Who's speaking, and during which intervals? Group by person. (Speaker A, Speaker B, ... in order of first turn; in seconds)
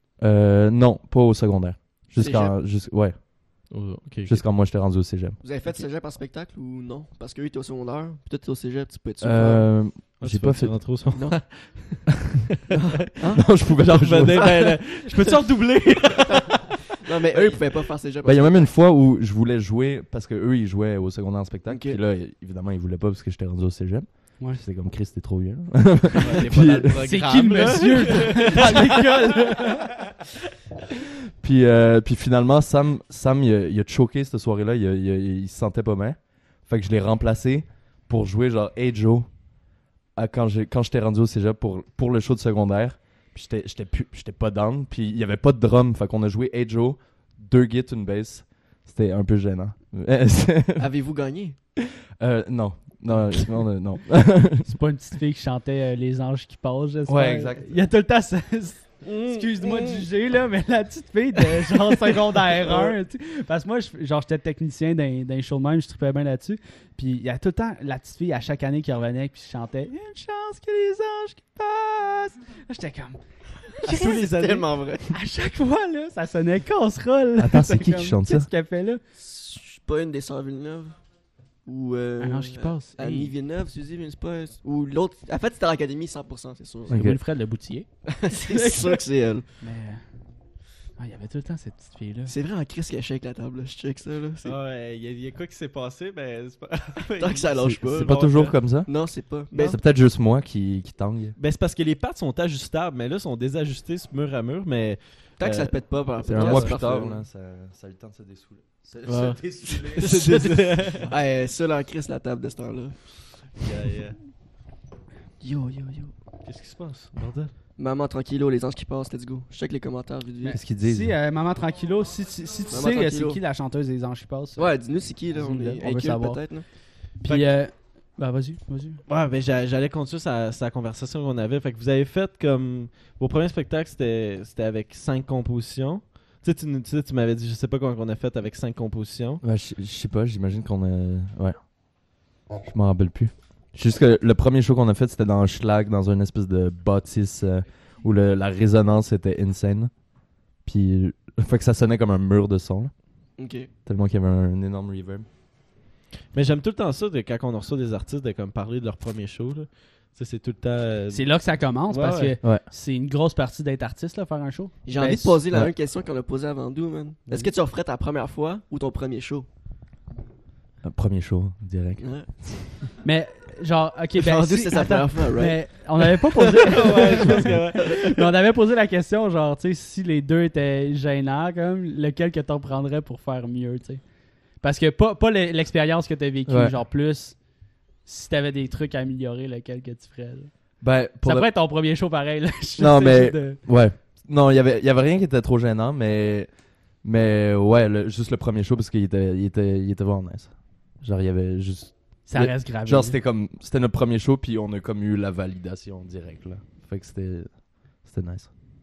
Speaker A: 0.2-5.4, 9.2-10.8, 12.7-14.7, 18.2-27.0, 31.4-39.6, 40.1-50.9, 52.2-54.7, 57.1-57.8, 77.4-78.5, 86.9-87.2, 97.6-101.4, 106.3-110.1, 120.5-121.2, 139.4-152.9, 153.9-155.3, 170.8-172.6, 186.5-186.7, 190.8-191.5, 192.8-208.5
Speaker B: 2.1-2.6, 5.4-9.7, 11.2-11.4, 13.2-13.5, 14.3-15.4, 16.4-18.7, 21.7-22.0, 50.8-51.6, 59.0-60.0, 62.7-62.9, 73.8-75.1, 79.2-81.1, 81.6-86.9, 88.1-89.5, 92.3-94.6, 97.2-99.8, 105.4-107.2, 110.0-113.0, 115.4-116.1, 117.8-120.6, 122.7-123.4, 124.6-126.7, 153.4-153.7, 164.8-169.5, 172.0-172.3, 174.2-178.1
Speaker C: 3.7-4.4, 10.2-12.3, 13.9-16.8, 26.2-29.3, 73.8-74.7, 94.4-98.6, 99.5-99.8, 101.4-106.8, 109.1-111.1, 113.6-114.2, 116.4-117.5, 127.2-127.5, 129.1-139.4, 156.3-162.4, 176.6-178.0
Speaker D: 27.0-29.9, 54.6-73.2, 73.8-74.2, 75.1-79.0, 82.2-83.3, 86.9-89.0, 89.6-90.1, 91.0-92.3, 120.4-129.0, 161.1-165.4, 173.0-187.5, 188.0-193.6, 202.3-203.2